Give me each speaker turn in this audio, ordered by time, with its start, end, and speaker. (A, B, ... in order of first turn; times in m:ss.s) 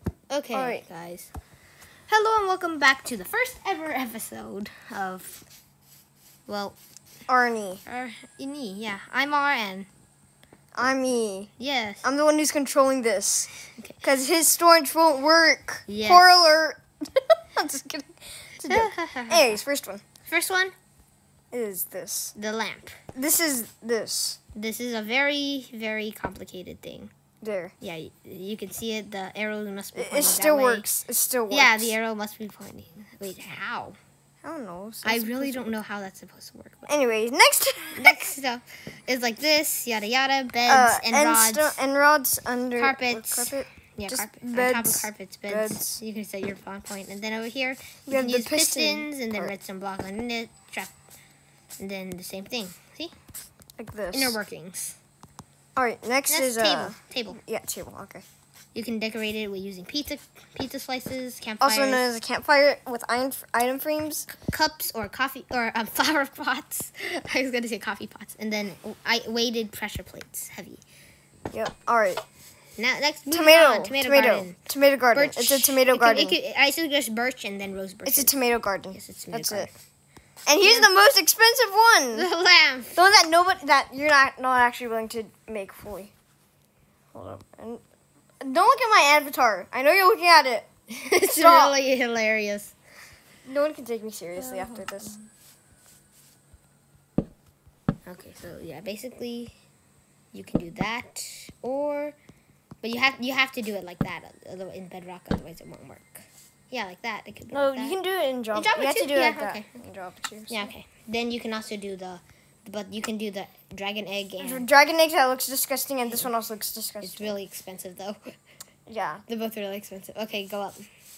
0:00.3-0:01.3 A
0:00.5-0:00.8 B
0:02.1-0:05.4 A
0:06.5-0:06.8 A
0:07.3-0:07.8 B
0:07.9-0:09.9 A
0:10.8-0:11.5 B
0:11.6-0:12.1 A
0:12.0-0:13.5 B
0:13.8-0:14.0 A
0:14.0-0:20.0 B
0:15.9-0:16.6 A
0:18.6-0:19.6 A
0:20.3-0:20.7 A
0:21.5-0:22.3 B
0:22.4-0:23.0 A
0:23.1-0:24.4 B
0:24.5-0:27.1 A
0:27.4-0:27.8 B
0:27.8-0:30.9 A
0:30.0-0:32.0 B
0:31.5-0:34.0 A
0:34.4-0:35.7 B
0:35.0-0:36.9 A
0:36.9-0:38.3 B
0:38.0-0:41.8 A
0:40.7-0:46.0 B
0:42.8-0:50.9 A
0:48.1-0:49.5 B
0:51.8-0:53.1 A
0:53.8-0:54.4 B
0:54.1-0:55.0 A
0:55.8-0:58.2 B
0:56.3-0:57.4 A
0:58.7-1:02.1 A
1:01.6-1:04.3 B
1:04.5-1:10.8 A
1:11.5-1:12.2 B
1:12.8-1:14.6 A
1:13.3-1:16.4 B
1:15.1-1:18.3 A
1:18.1-1:19.7 B
1:18.9-1:19.8 A
1:20.5-1:22.3 B
1:20.6-1:20.9 A
1:22.1-1:23.0 A
1:23.0-1:26.1 B
1:27.1-1:27.8 B
1:28.4-1:30.7 B
1:30.9-1:32.8 A
1:31.2-1:31.8 B
1:33.4-1:35.2 B
1:34.4-1:35.3 A
1:38.1-1:39.5 A
1:40.3-1:42.2 A
1:42.8-1:48.0 A
1:47.5-1:50.7 B
1:48.5-1:49.7 A
1:50.5-1:54.7 A
1:54.4-1:57.3 B
1:57.0-1:58.4 A
1:58.9-1:59.2 B
1:59.3-2:00.9 A